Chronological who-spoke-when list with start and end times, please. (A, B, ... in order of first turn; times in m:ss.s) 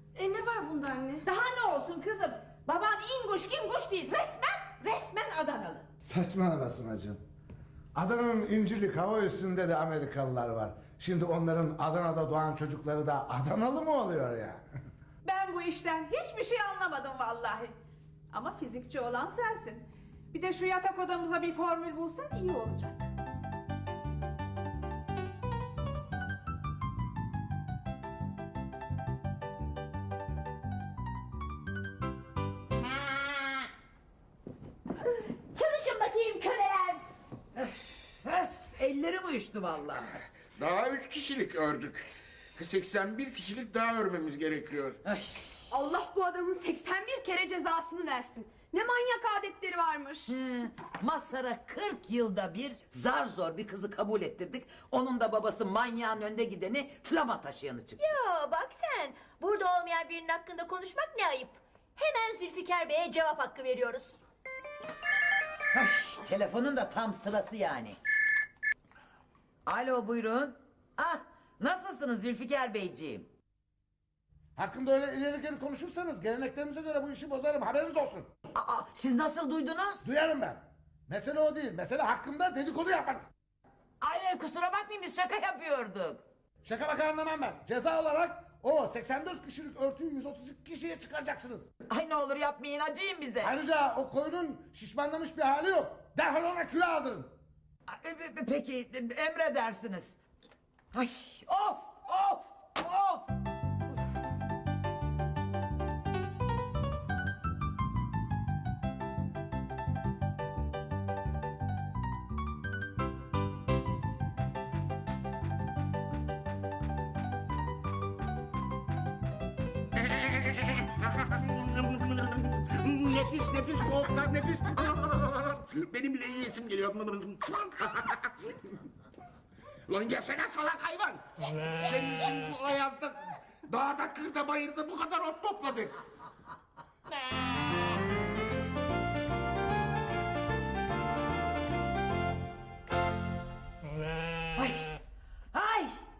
0:00.2-0:01.3 A
0:01.2-0:05.8 B
0:06.0-0:07.2 C
0:08.0-0:14.6 C
0:15.2-0:17.8 B
0:18.3-0:23.1 B
0:35.3-0:37.0 D
0:37.6-0:40.2 E
0:40.6-0:45.0 F
0:45.0-0:45.7 E
0:45.7-0:50.3 A
0:50.3-0:58.0 E
0:58.0-1:04.1 D
1:05.7-1:08.0 E
1:09.7-1:13.3 E
1:14.6-1:18.3 C
1:18.6-1:20.0 E
1:20.0-1:23.3 C
1:24.0-1:26.2 E
1:26.6-1:31.7 C
1:31.9-1:33.5 E
1:33.4-1:37.3 C
1:37.9-1:40.2 E
1:40.9-1:43.3 E
2:00.0-2:08.5 F
2:09.9-2:16.0 F
2:24.6-2:24.9 E
2:25.5-2:25.9 E